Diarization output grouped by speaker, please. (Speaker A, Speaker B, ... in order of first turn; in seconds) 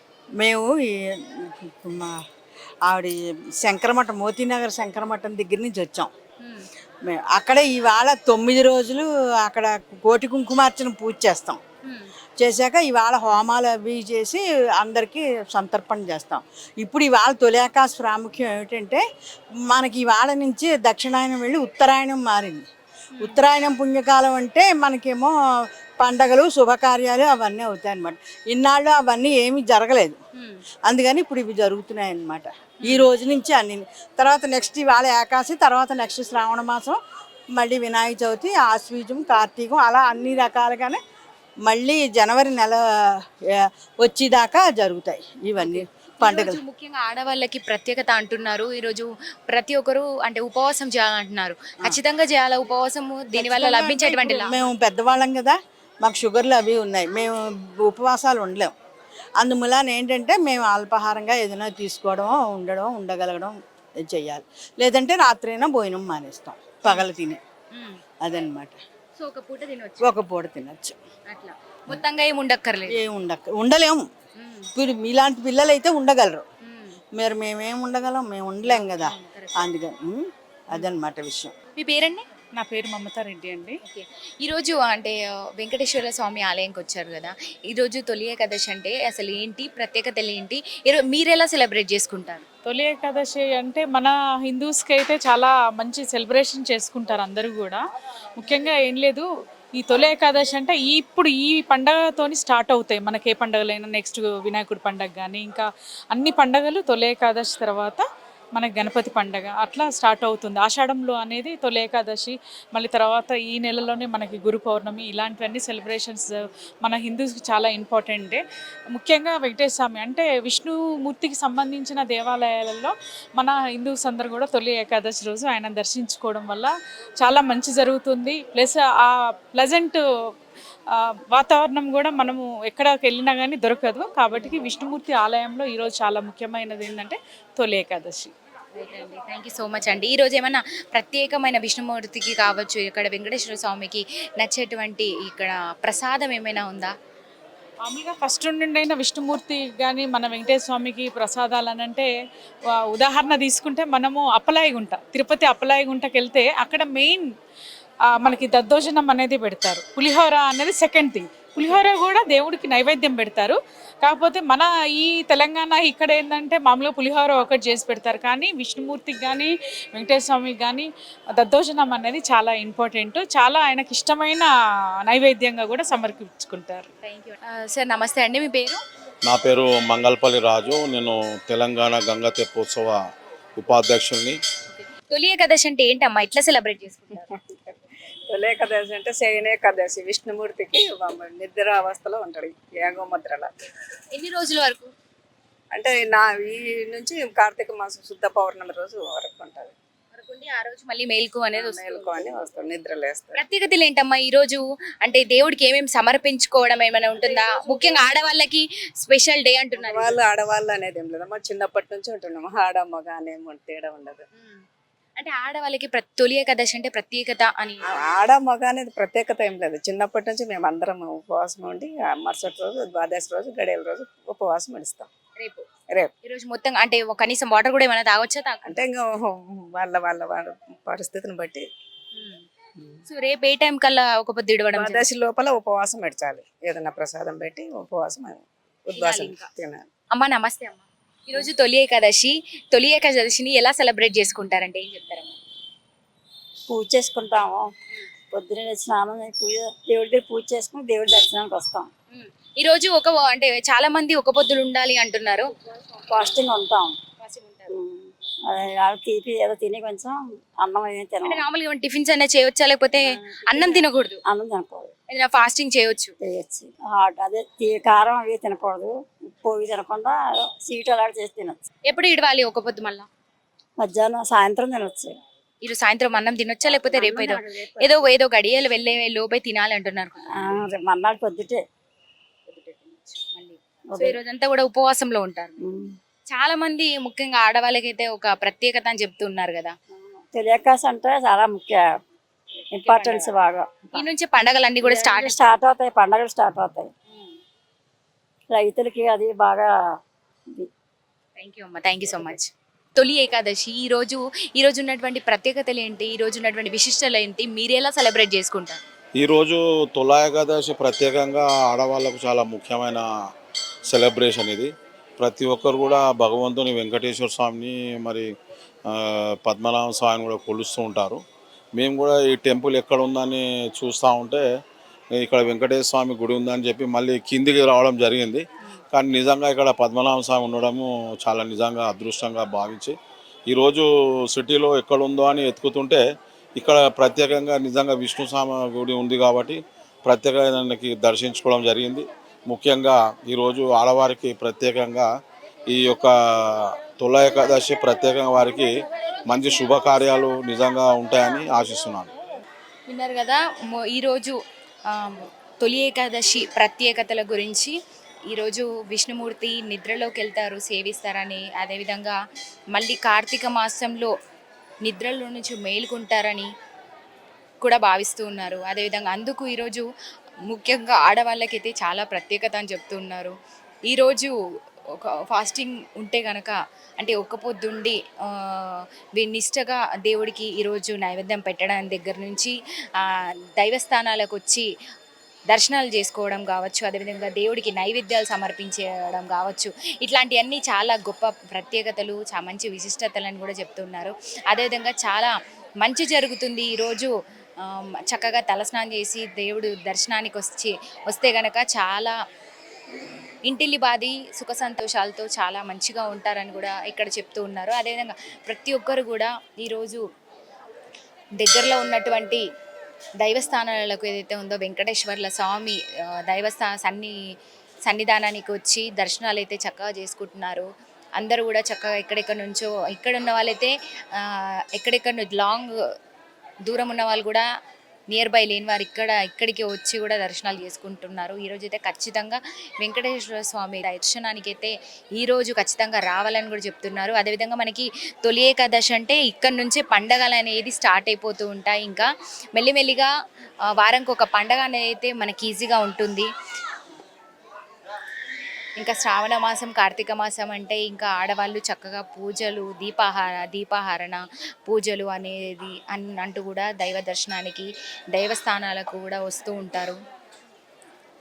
Speaker A: 0.4-2.1, 2.9-6.1, 7.1-11.6, 12.4-19.0, 19.7-22.7, 23.2-25.3, 26.0-30.2, 30.9-37.0, 37.6-41.0, 41.7-42.9, 43.5-46.6, 53.3-58.7, 59.4-67.4, 68.2-68.8, 70.0-71.0, 72.9-74.0, 74.8-76.5, 77.1-81.5
Speaker B: 6.4-6.7, 11.8-12.1, 23.2-23.4, 30.4-30.6, 32.8-33.1, 45.6-54.5, 67.7-68.0, 69.2-70.2, 71.3-73.0, 74.4-74.7, 76.6-77.0, 78.7-79.7, 81.8-82.3, 83.8-92.5, 138.8-146.9, 177.0-178.8, 184.7-187.3, 194.1-194.9, 200.1-202.3, 203.3-210.2, 214.3-214.6, 215.2-218.1, 225.4-225.7, 226.2-228.8, 232.1-232.5, 233.1-235.1, 238.9-239.5, 240.1-245.4, 252.1-255.5, 257.2-257.8, 261.2-264.2, 265.1-266.1, 271.9-273.1, 275.6-280.3, 282.5-285.6, 286.3-289.8, 292.8-293.3, 293.9-295.4, 301.4-308.8, 352.9-357.8, 358.3-362.2, 362.7-364.1, 364.8-366.5, 367.6-369.9, 370.5-373.4, 373.9-374.3, 374.9-384.7, 385.5-397.1, 397.6-402.1, 403.5-410.0, 411.4-412.4, 413.2-417.2, 417.9-425.7, 426.6-427.4, 428.1-443.1, 443.7-446.3, 448.8-460.0
Speaker C: 82.6-83.8, 92.7-97.8, 98.4-99.3, 99.8-108.0, 108.6-118.4, 119.0-130.0, 130.9-138.3, 147.8-152.1, 152.9-157.3, 158.2-174.5, 175.1-176.9
Speaker D: 179.2-183.0, 183.6-184.4, 309.2-313.1, 313.9-318.3, 318.9-321.2, 321.8-324.4, 325.1-333.0, 333.5-336.0, 336.6-345.1, 345.7-348.7, 349.2-352.1
Speaker E: 187.3-193.5, 195.7-199.8, 201.5-203.4, 207.4-208.0, 209.7-214.2, 217.9-225.1, 228.7-231.7, 234.7-239.9
Speaker F: 246.7-247.7, 248.3-251.9, 256.0-257.0, 257.7-261.4, 263.1-264.9, 266.2-271.6, 273.8-275.2, 276.7-278.0, 280.3-281.6, 283.9-284.2, 285.6-286.0, 289.9-291.9, 292.8-294.1, 294.8-296.9, 298.5-300.7